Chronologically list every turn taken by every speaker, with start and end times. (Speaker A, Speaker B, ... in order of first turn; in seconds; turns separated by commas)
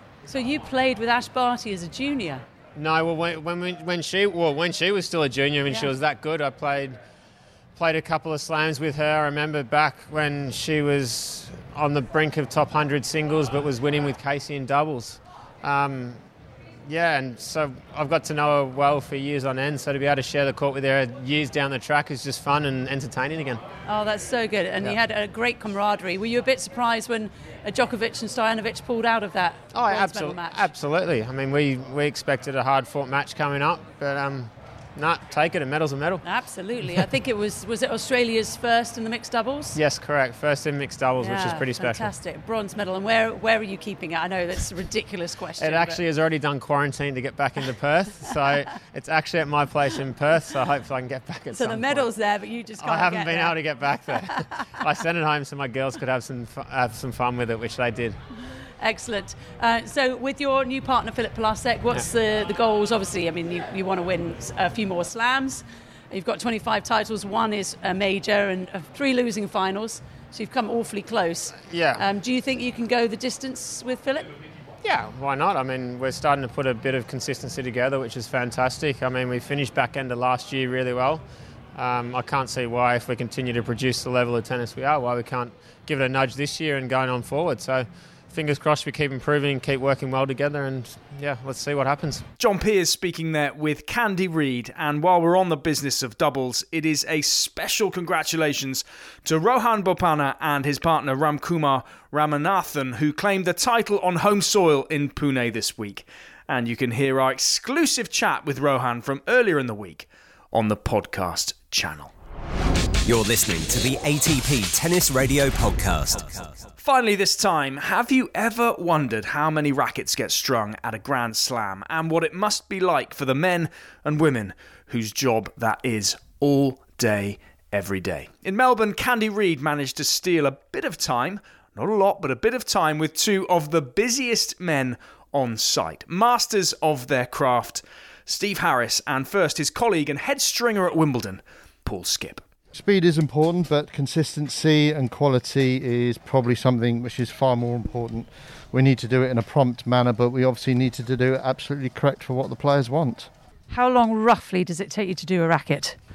Speaker A: 0.3-2.4, Speaker B: 2.7-7.0, Speaker B: 7.8-16.2, Speaker B: 16.9-23.6, Speaker A: 23.9-30.6, Speaker B: 29.7-36.2, Speaker A: 36.2-39.8, Speaker B: 39.7-42.1, Speaker A: 41.2-46.0, Speaker B: 45.6-52.1, Speaker A: 51.5-53.6, Speaker B: 52.8-58.2, Speaker A: 58.8-74.3, Speaker B: 71.7-72.0, Speaker B: 74.8-81.2, Speaker B: 81.7-92.2, Speaker C: 92.4-112.1, Speaker D: 113.0-116.7, Speaker C: 116.8-142.4, Speaker E: 142.7-153.3, Speaker A: 153.7-156.0